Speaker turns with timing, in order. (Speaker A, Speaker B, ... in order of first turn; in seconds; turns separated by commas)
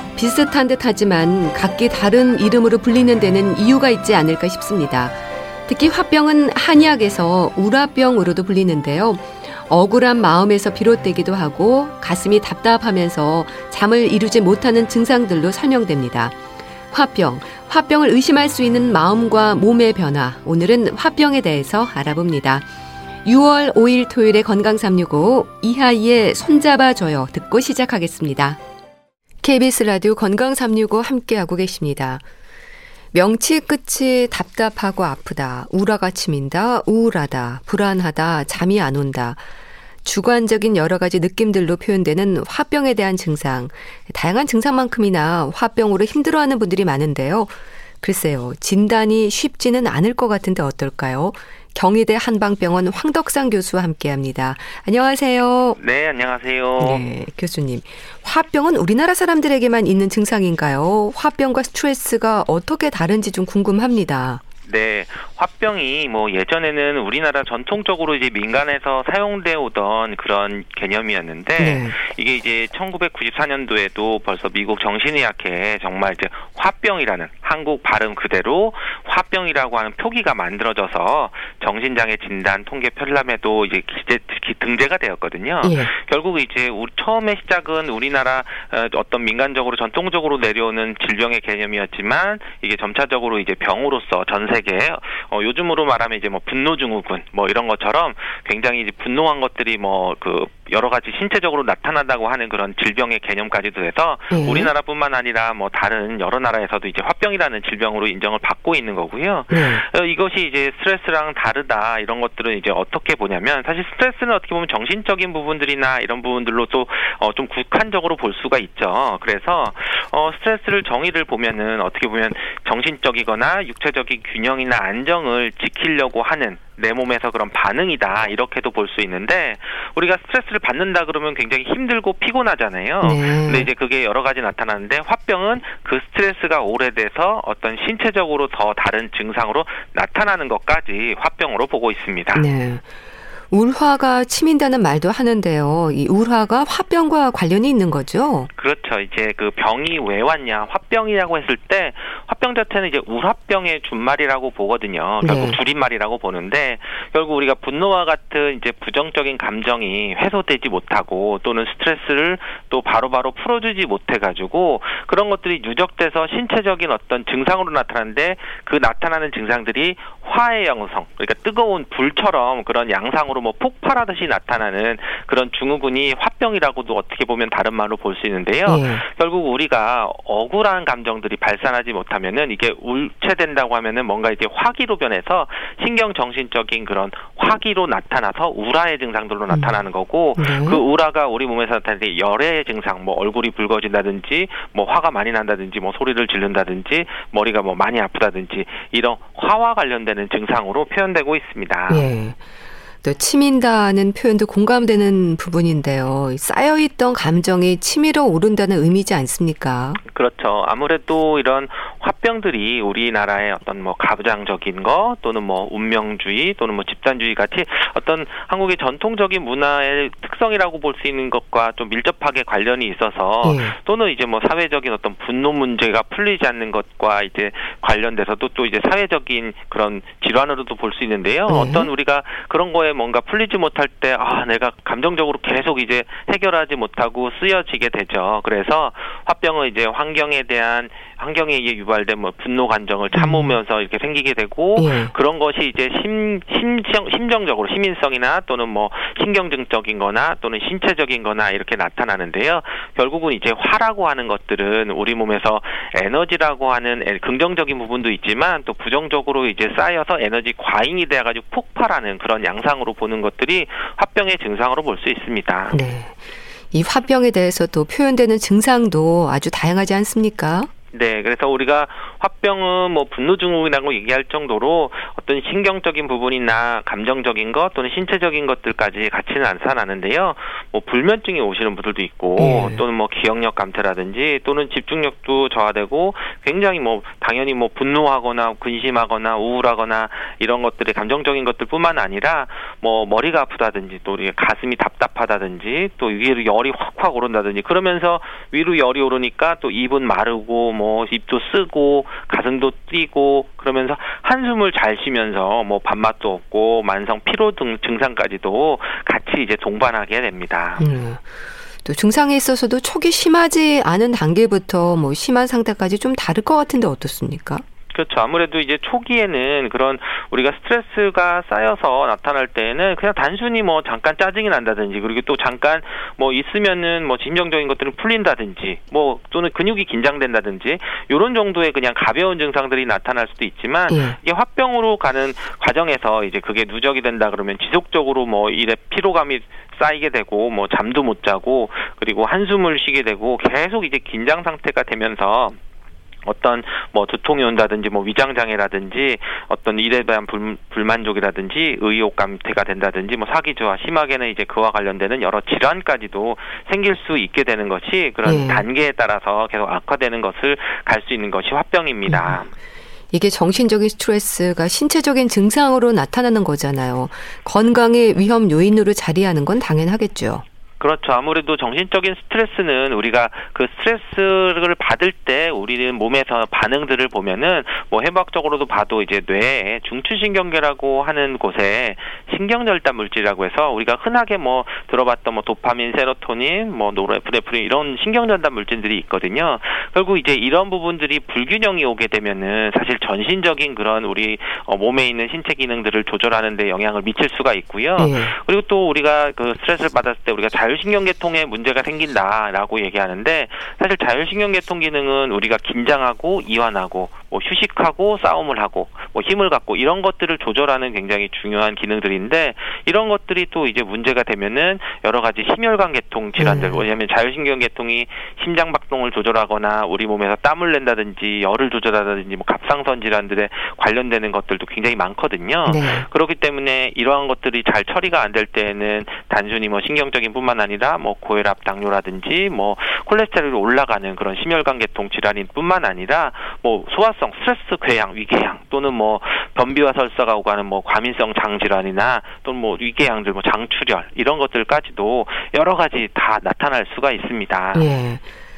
Speaker A: 0.2-16.4, Speaker A: 16.9-22.7, Speaker A: 23.2-28.6, Speaker A: 29.4-32.2, Speaker A: 33.1-39.4, Speaker A: 40.0-55.8, Speaker B: 55.8-57.0, Speaker A: 56.8-64.4, Speaker B: 64.7-142.5, Speaker A: 71.6-72.0, Speaker A: 85.6-85.9, Speaker A: 104.3-104.7, Speaker A: 109.5-109.8, Speaker A: 133.0-133.7, Speaker A: 142.3-142.9, Speaker A: 143.5-148.5, Speaker B: 148.6-202.0, Speaker A: 155.2-155.6, Speaker A: 178.7-179.0, Speaker A: 190.4-190.8, Speaker A: 201.9-202.4, Speaker A: 203.0-210.0, Speaker B: 210.1-265.8, Speaker A: 223.4-223.8, Speaker A: 231.5-231.9, Speaker A: 243.1-243.6, Speaker A: 244.8-245.1, Speaker A: 265.7-266.2, Speaker A: 266.7-270.7, Speaker B: 270.9-310.8, Speaker A: 282.4-282.8, Speaker A: 310.8-311.3, Speaker A: 311.8-317.6, Speaker B: 317.9-345.6, Speaker A: 333.9-334.2, Speaker B: 346.2-362.5, Speaker A: 358.2-358.6, Speaker A: 362.1-362.4, Speaker A: 363.1-370.4, Speaker B: 370.8-447.9, Speaker A: 398.0-398.3, Speaker A: 416.4-416.8, Speaker A: 425.7-426.1, Speaker A: 447.7-448.2